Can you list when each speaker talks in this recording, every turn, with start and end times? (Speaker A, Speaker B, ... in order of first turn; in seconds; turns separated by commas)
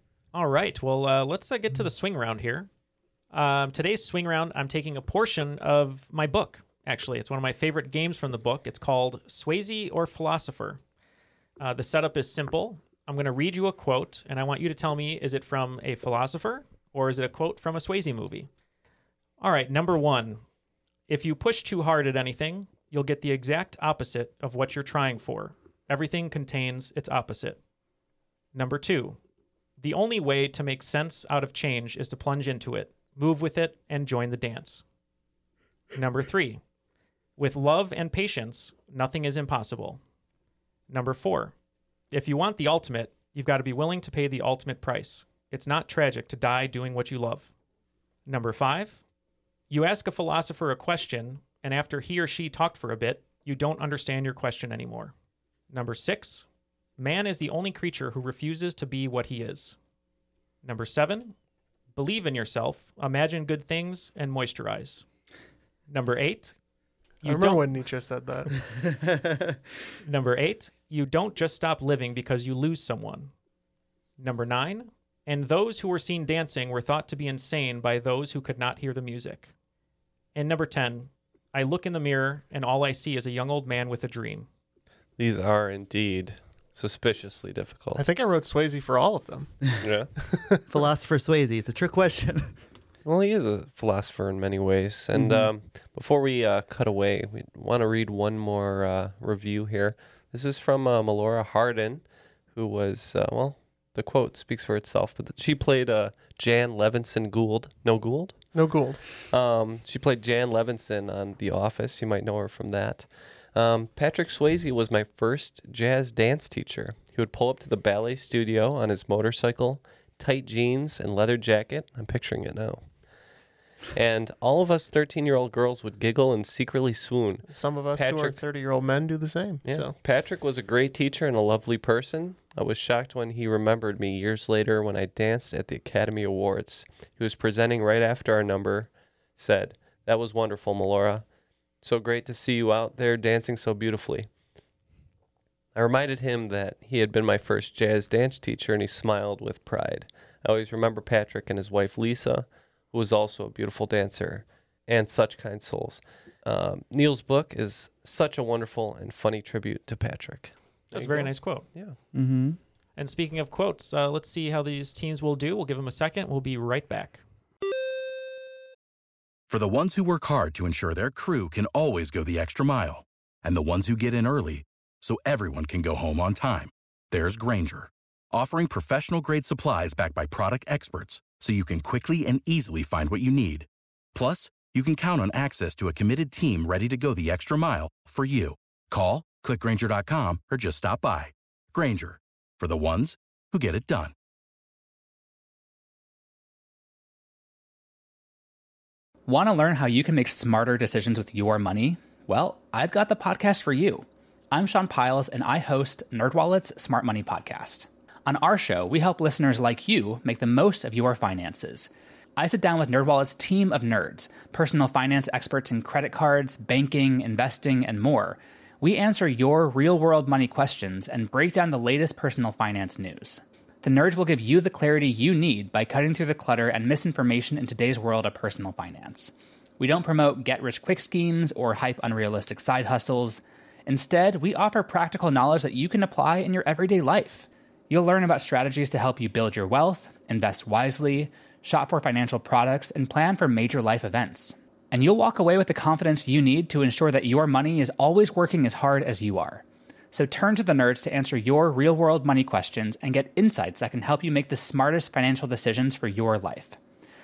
Speaker A: 0.3-2.7, Speaker A: 3.3-10.8, Speaker A: 11.6-18.5, Speaker A: 19.4-20.4, Speaker A: 21.1-27.6, Speaker A: 28.5-29.2, Speaker A: 29.8-34.8, Speaker A: 35.9-36.6, Speaker A: 37.4-40.0, Speaker A: 40.9-41.5, Speaker A: 42.1-47.5, Speaker A: 48.2-49.0, Speaker A: 49.7-55.1, Speaker A: 55.7-56.4, Speaker A: 57.0-59.8, Speaker A: 60.6-61.3, Speaker A: 61.9-65.0, Speaker A: 65.9-66.5, Speaker A: 67.2-67.7, Speaker B: 67.2-68.5, Speaker C: 68.8-69.5, Speaker A: 70.0-73.3, Speaker A: 74.2-79.5, Speaker A: 80.3-84.5, Speaker D: 85.2-88.0, Speaker B: 87.9-89.7, Speaker D: 89.8-90.1, Speaker B: 90.3-90.6, Speaker C: 90.7-92.5, Speaker D: 93.0-102.0, Speaker C: 95.2-95.5, Speaker D: 102.5-108.4, Speaker B: 108.5-109.0, Speaker D: 109.2-122.8, Speaker D: 123.9-128.4, Speaker B: 127.5-129.9, Speaker D: 129.7-141.2, Speaker D: 141.8-144.3, Speaker D: 145.7-162.0, Speaker A: 160.9-161.7, Speaker C: 162.1-162.6, Speaker A: 163.0-167.2, Speaker E: 169.5-194.1, Speaker F: 199.2-256.8